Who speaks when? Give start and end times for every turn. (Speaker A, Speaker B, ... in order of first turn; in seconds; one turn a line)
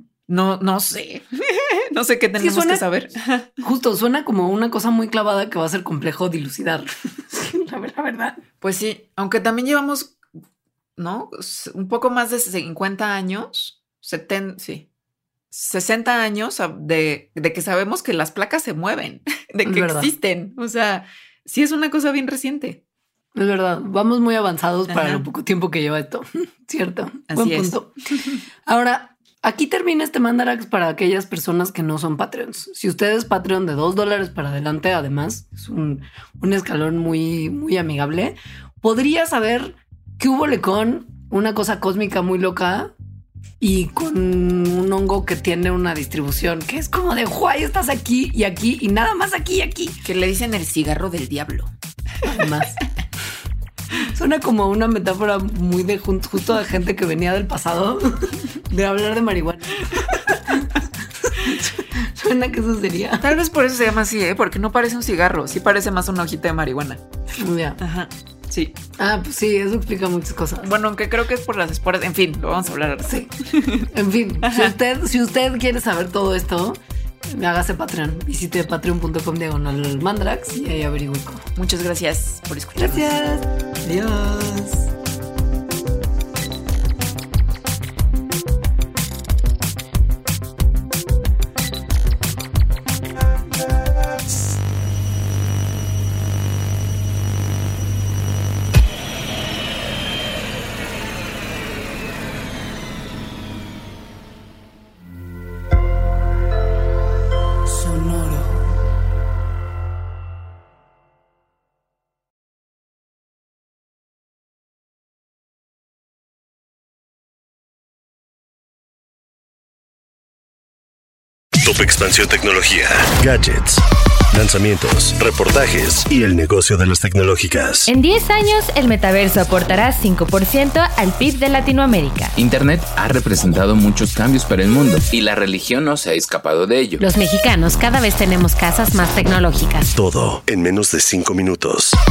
Speaker A: 0.3-3.6
Speaker B: 2.4-2.9
Speaker B: 3.6-8.4
Speaker A: 8.6-10.2
Speaker A: 11.0-14.9
Speaker A: 15.5-22.8
Speaker B: 19.6-20.1
Speaker B: 23.4-27.9
Speaker A: 24.9-25.2
Speaker A: 27.3-27.8
Speaker B: 28.7-43.0
Speaker B: 43.6-50.0
Speaker A: 50.0-51.7
Speaker B: 52.2-52.8
Speaker B: 54.0-63.4
Speaker A: 63.2-67.0
Speaker B: 67.3-67.8
Speaker A: 67.8-68.8
Speaker B: 69.0-70.7
Speaker A: 70.6-73.9
Speaker B: 73.1-73.3
Speaker B: 73.9-81.5
Speaker A: 74.4-74.7
Speaker A: 81.6-83.1
Speaker B: 82.8-84.9
Speaker C: 121.6-123.8
Speaker C: 124.3-127.9
Speaker D: 127.9-132.3
Speaker E: 132.4-137.0
Speaker D: 137.0-139.9
Speaker C: 139.9-142.0